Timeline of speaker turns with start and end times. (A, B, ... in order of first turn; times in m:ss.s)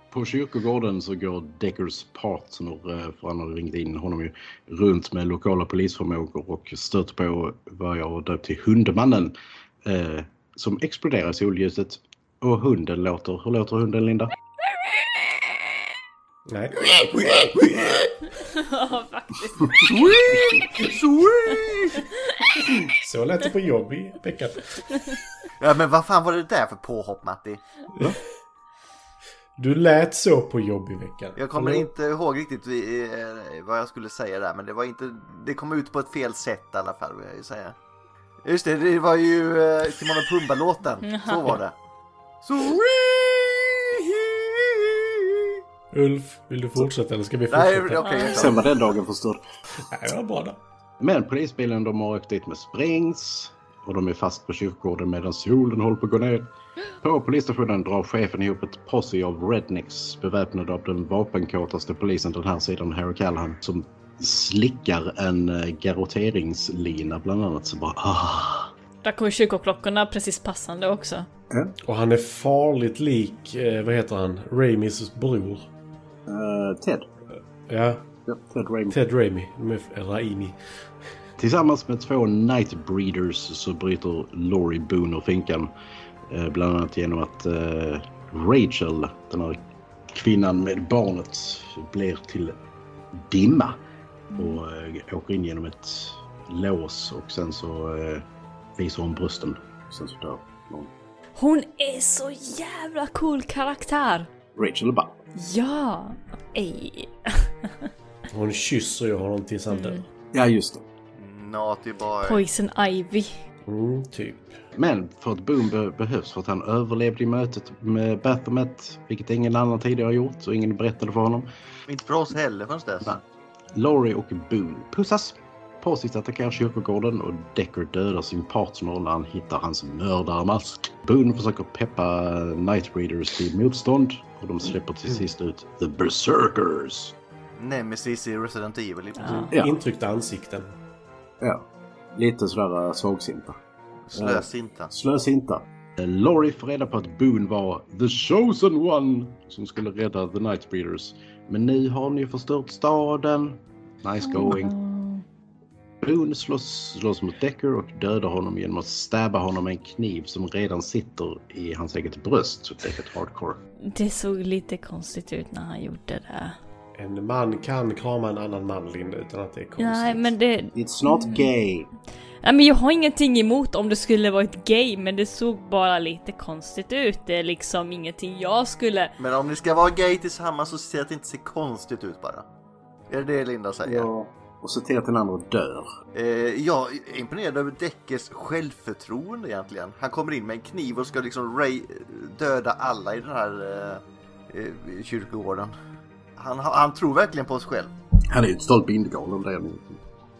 0:00.1-0:14.3 A
0:16.5-0:17.1 B
0:18.3-0:19.9 C
0:20.2-0:21.9 D
0:21.9-0:22.5 C
0:23.0-0:24.8 B
0:25.6-0:27.6 D
0:29.6-0:31.9 B
0:31.4-0:37.8 D
0:38.4-0:41.7 D
0:41.0-0:41.6 C
0:42.4-0:45.5 D
0:45.9-0:48.2 B
0:47.5-0:48.7 D
0:48.0-0:48.4 C
0:48.2-0:49.4 E
0:49.9-0:50.6 B
0:51.0-0:56.5 A
0:57.0-1:08.7 A
1:09.0-1:11.3 C
1:11.8-1:15.7 B
1:16.3-1:17.1 E
1:17.7-1:18.0 B
1:18.2-1:19.0 E
1:18.9-1:20.6 B
1:21.4-1:25.7 A
1:26.3-1:29.6 A
1:30.1-1:32.6 A
1:33.1-1:33.8 A
1:34.3-1:38.2 A
1:38.8-1:39.6 A
1:39.9-1:40.9 E
1:41.4-1:44.3 C
1:44.6-1:45.2 E
1:45.3-1:47.9 C
1:48.3-1:50.0 B
1:49.7-1:50.0 C
1:50.3-1:50.8 E
1:51.2-1:52.4 D
1:52.2-1:53.3 C
1:53.7-1:54.5 B
1:54.7-2:01.5 A
2:01.9-2:03.2 D
2:03.7-2:17.1 A
2:17.6-2:19.5 D
2:19.2-2:19.5 C
2:19.3-2:20.7 B
2:21.4-2:23.6 E
2:24.1-2:24.9 D
2:24.1-2:25.6 E
2:26.0-2:34.7 A
2:34.2-2:35.2 C
2:36.0-2:43.6 A
2:43.9-2:46.6 C
2:47.0-2:50.3 B
2:49.8-2:51.5 C
2:50.7-2:51.9 E
2:52.4-2:59.1 C
2:59.2-3:02.4 D
3:03.1-3:04.1 D
3:03.8-3:05.9 E
3:06.1-3:15.7 D
3:16.4-3:17.9 D
3:18.3-3:20.0 E